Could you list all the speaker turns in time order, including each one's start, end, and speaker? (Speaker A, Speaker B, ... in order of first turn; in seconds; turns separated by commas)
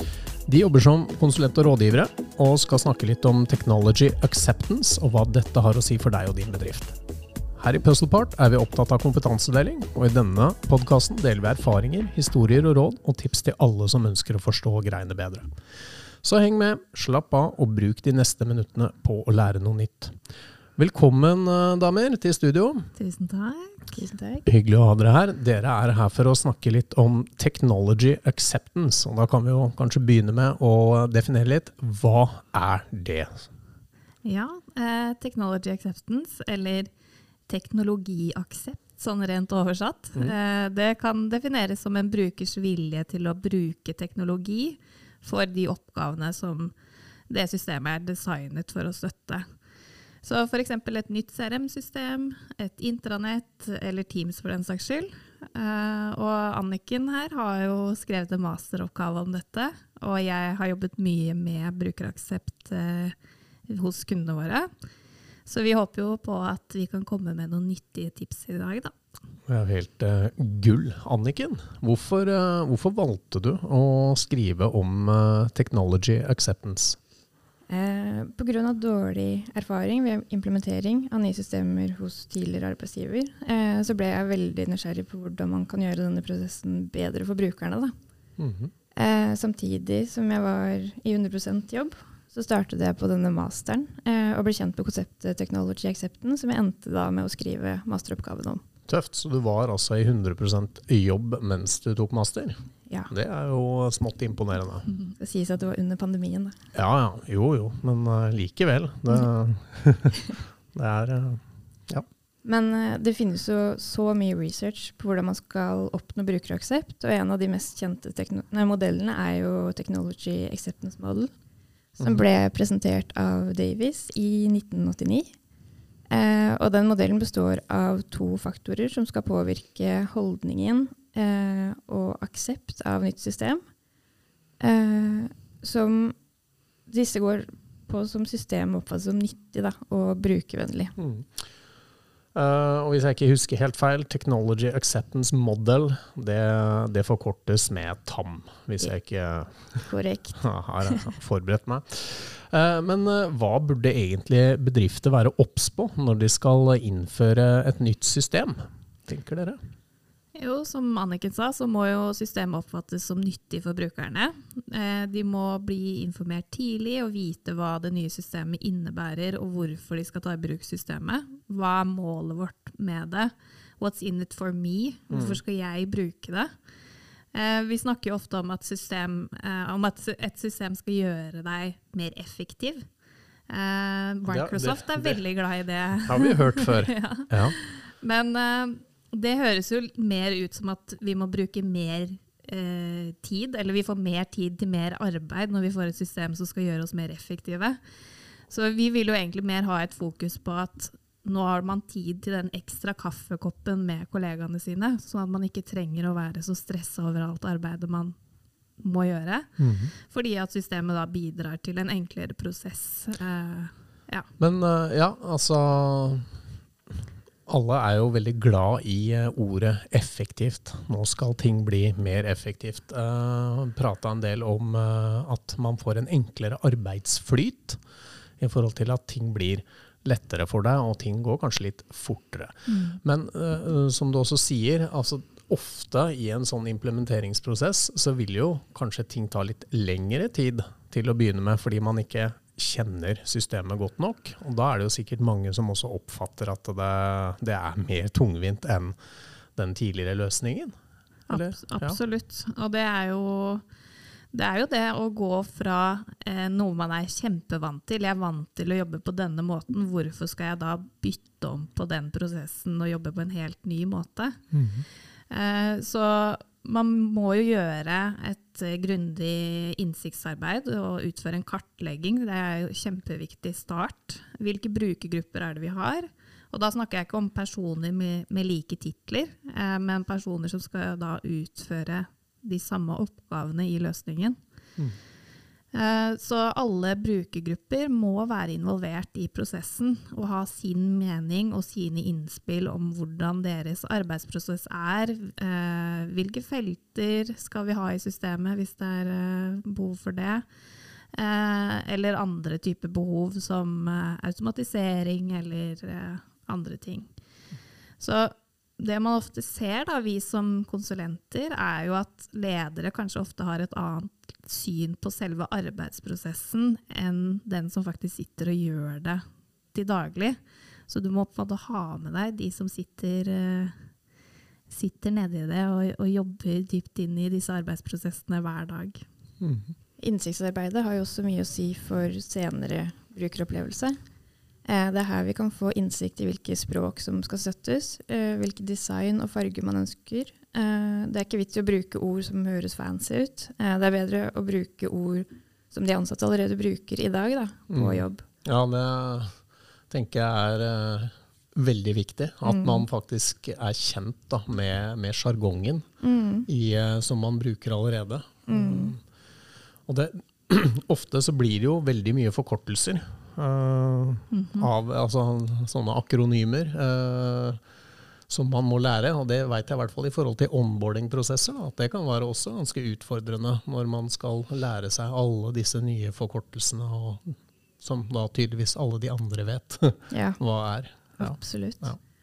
Speaker A: 0.5-7.0, Speaker A: 7.6-15.5, Speaker A: 16.2-20.2, Speaker A: 20.8-22.9, Speaker B: 23.0-23.9, Speaker C: 23.9-24.4, Speaker A: 24.5-33.5, Speaker B: 34.2-36.9, Speaker B: 37.5-46.7, Speaker B: 47.3-49.5, Speaker B: 50.2-63.1, Speaker B: 63.7-64.7, Speaker B: 65.5-69.0, Speaker A: 69.5-77.0, Speaker C: 77.7-87.9, Speaker A: 88.4-88.7, Speaker C: 89.0-98.6, Speaker A: 98.9-104.9, Speaker C: 105.2-106.6, Speaker A: 106.7-112.1, Speaker C: 112.4-121.3, Speaker C: 122.0-125.3, Speaker A: 122.0-122.2, Speaker C: 126.1-133.6, Speaker C: 134.6-136.2, Speaker C: 136.9-140.9, Speaker A: 141.0-141.5, Speaker A: 142.3-159.6, Speaker C: 149.9-151.0, Speaker B: 160.3-176.5, Speaker A: 175.1-175.4, Speaker B: 177.3-182.9, Speaker B: 183.5-197.8, Speaker A: 184.3-185.2, Speaker A: 186.0-187.6, Speaker B: 198.5-208.2, Speaker B: 208.8-214.3, Speaker A: 209.6-209.9, Speaker A: 214.4-216.3, Speaker A: 217.5-227.8, Speaker A: 228.4-249.0, Speaker B: 232.7-233.0, Speaker A: 249.6-250.8, Speaker A: 251.3-252.0, Speaker B: 251.3-253.7, Speaker B: 254.3-264.4, Speaker A: 264.5-264.9, Speaker B: 265.3-284.4, Speaker B: 285.7-300.4, Speaker B: 301.1-307.1, Speaker B: 308.0-323.8, Speaker B: 324.7-329.1, Speaker A: 329.4-329.7, Speaker C: 330.0-334.0, Speaker C: 334.6-348.2, Speaker A: 347.7-349.4, Speaker A: 349.9-355.9, Speaker C: 352.4-352.9, Speaker C: 356.0-356.5, Speaker A: 356.5-359.0, Speaker C: 358.5-359.0, Speaker A: 359.9-367.6, Speaker B: 364.3-364.7, Speaker A: 368.3-382.0, Speaker C: 380.1-380.4, Speaker C: 381.1-381.9